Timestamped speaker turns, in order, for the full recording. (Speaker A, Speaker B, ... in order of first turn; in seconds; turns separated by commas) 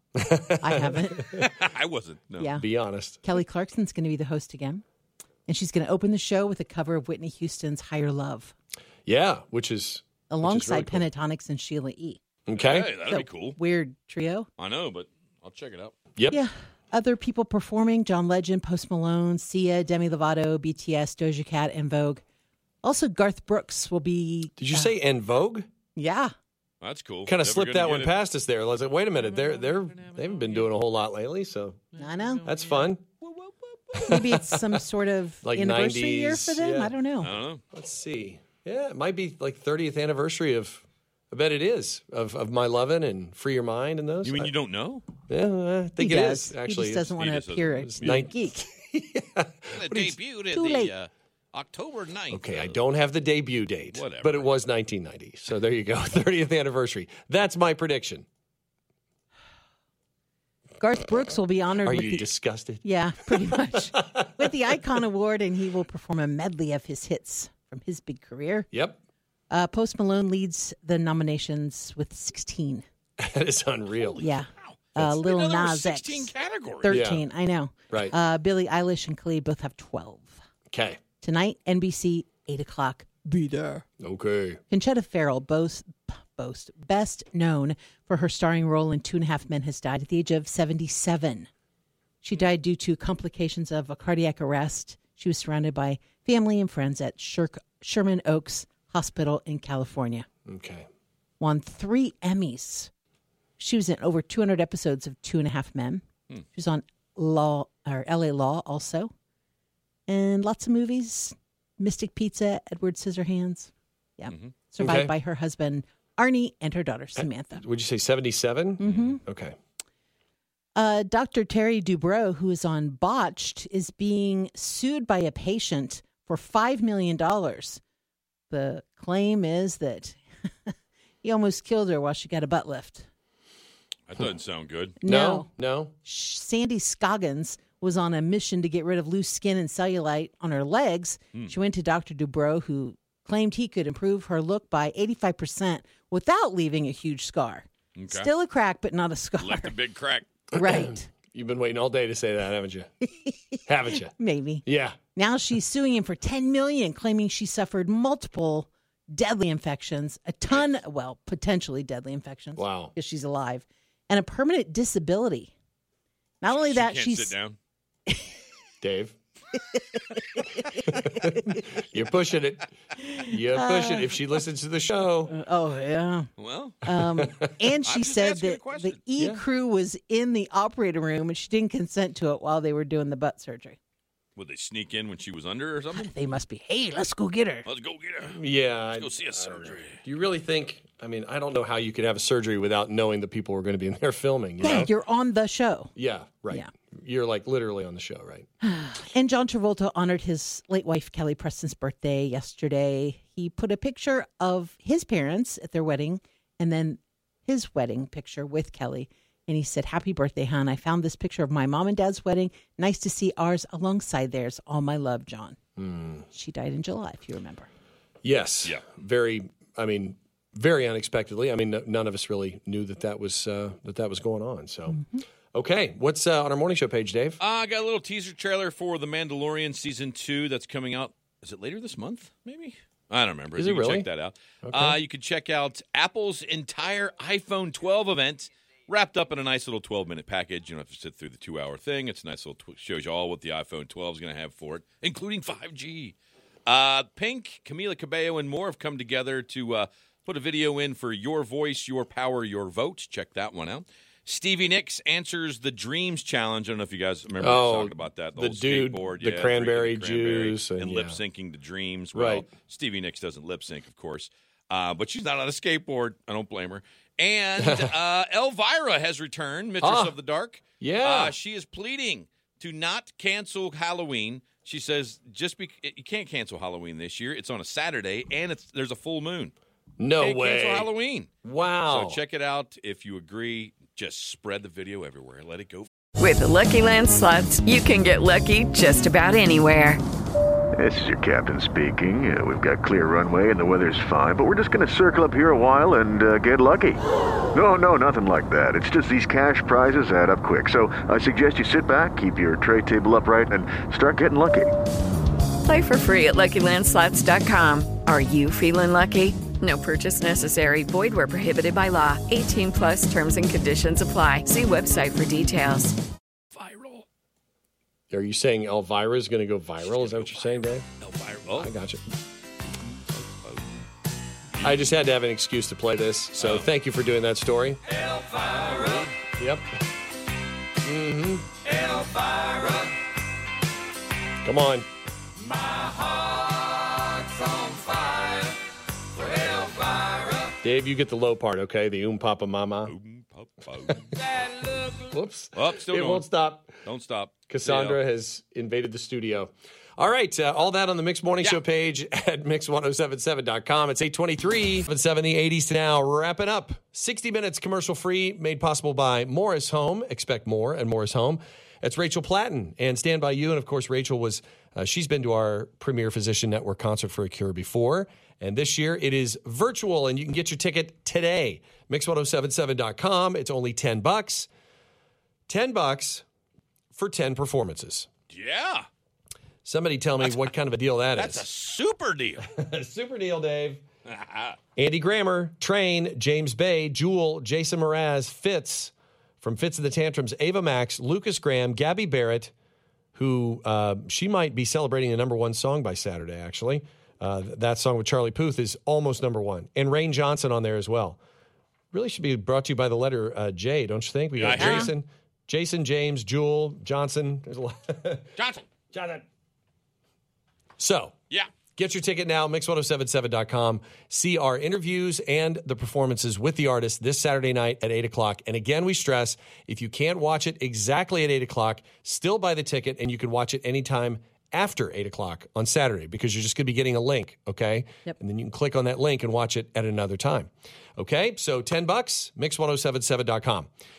Speaker A: 0.2-1.4, Speaker B: 0.6-1.3, Speaker C: 1.3-2.5, Speaker B: 2.4-2.6, Speaker A: 2.5-3.2, Speaker B: 3.2-4.8, Speaker B: 5.5-8.5, Speaker A: 9.1-11.1, Speaker B: 10.3-12.2, Speaker A: 12.5-12.9, Speaker C: 12.5-13.6, Speaker B: 13.1-14.5, Speaker C: 14.6-15.9, Speaker B: 16.3-22.2, Speaker B: 22.8-24.9, Speaker A: 24.6-25.7, Speaker B: 26.0-26.3, Speaker C: 26.8-28.2, Speaker A: 27.3-31.9, Speaker C: 29.3-30.7, Speaker B: 32.0-32.5, Speaker C: 32.0-33.5, Speaker A: 32.4-33.0, Speaker A: 34.0-34.8, Speaker B: 34.0-37.3, Speaker A: 35.4-37.0, Speaker C: 37.2-37.6, Speaker A: 37.7-44.5, Speaker C: 44.2-45.1, Speaker A: 45.3-47.1, Speaker B: 46.0-48.6, Speaker C: 47.1-48.2, Speaker A: 47.8-50.2, Speaker C: 49.8-52.8, Speaker B: 50.5-50.9, Speaker A: 52.3-58.2, Speaker C: 53.9-54.5, Speaker B: 60.8-62.3, Speaker A: 61.9-64.5, Speaker B: 62.8-68.7, Speaker A: 68.7-69.0, Speaker B: 69.5-72.8, Speaker A: 73.2-74.3, Speaker B: 74.2-80.4, Speaker C: 74.6-77.1, Speaker A: 76.9-77.2, Speaker A: 80.7-81.0, Speaker B: 81.2-83.8, Speaker A: 84.0-84.6, Speaker B: 84.7-91.5, Speaker B: 92.2-100.3, Speaker A: 100.5-100.9, Speaker B: 101.4-102.9, Speaker B: 103.6-109.1, Speaker B: 110.1-117.6, Speaker A: 114.8-115.1, Speaker A: 117.2-119.6, Speaker B: 118.8-119.2, Speaker B: 120.8-127.8, Speaker B: 128.5-133.1, Speaker C: 134.1-135.0, Speaker B: 135.0-135.5, Speaker A: 135.0-135.9, Speaker B: 136.0-149.8, Speaker C: 148.0-148.3, Speaker C: 149.4-150.3, Speaker B: 150.5-151.1, Speaker A: 150.7-152.9, Speaker B: 153.2-153.6, Speaker A: 153.7-154.1, Speaker B: 154.1-165.5, Speaker A: 154.7-155.0, Speaker A: 162.6-162.9, Speaker B: 166.4-167.4, Speaker C: 166.5-167.6, Speaker A: 168.8-169.2, Speaker B: 169.6-171.6, Speaker A: 170.9-175.3, Speaker B: 173.2-174.1, Speaker B: 175.3-176.3, Speaker C: 176.4-176.8, Speaker B: 176.8-183.8, Speaker A: 176.9-177.5, Speaker C: 177.8-179.0, Speaker C: 184.4-186.1, Speaker B: 185.9-187.7, Speaker C: 187.7-188.4, Speaker A: 188.3-194.9, Speaker C: 188.9-190.0, Speaker B: 194.6-195.9, Speaker A: 196.0-198.5, Speaker B: 198.6-215.6, Speaker A: 215.8-216.2, Speaker B: 216.3-217.7, Speaker A: 218.2-225.0, Speaker B: 224.9-225.2, Speaker A: 225.5-227.4, Speaker C: 227.4-246.2, Speaker A: 233.5-234.1, Speaker A: 234.7-235.0, Speaker C: 246.7-279.5, Speaker A: 257.4-261.2, Speaker A: 262.1-262.5, Speaker A: 267.6-267.9, Speaker A: 269.8-270.1, Speaker A: 270.8-271.4, Speaker A: 280.0-280.9, Speaker C: 280.2-281.3, Speaker A: 281.4-282.2, Speaker C: 281.9-285.9, Speaker D: 286.2-290.0, Speaker E: 290.8-297.0, Speaker E: 297.5-304.7, Speaker D: 305.6-316.0, Speaker C: 316.5-317.1, Speaker A: 318.1-320.9, Speaker C: 319.8-321.7, Speaker A: 321.5-322.0, Speaker C: 323.1-323.8, Speaker C: 324.6-324.8, Speaker A: 324.6-327.8, Speaker C: 326.4-326.7, Speaker C: 327.9-329.2, Speaker A: 329.4-329.7, Speaker A: 330.8-331.5, Speaker C: 331.8-332.9, Speaker A: 334.4-334.9, Speaker C: 339.2-339.9, Speaker A: 340.6-342.9, Speaker C: 342.9-346.3, Speaker A: 345.1-346.8, Speaker C: 346.8-348.0, Speaker A: 347.5-374.5, Speaker A: 375.5-376.2, Speaker A: 376.9-378.1, Speaker C: 378.3-378.9, Speaker A: 379.6-381.5, Speaker C: 380.2-380.5, Speaker C: 381.1-382.4, Speaker A: 382.4-383.8, Speaker C: 384.1-384.6, Speaker A: 384.8-392.5, Speaker A: 393.1-401.2, Speaker A: 401.9-408.3, Speaker C: 404.4-404.9, Speaker B: 404.6-404.9, Speaker C: 408.4-408.6, Speaker A: 408.9-409.2, Speaker A: 410.8-411.2, Speaker A: 411.7-433.7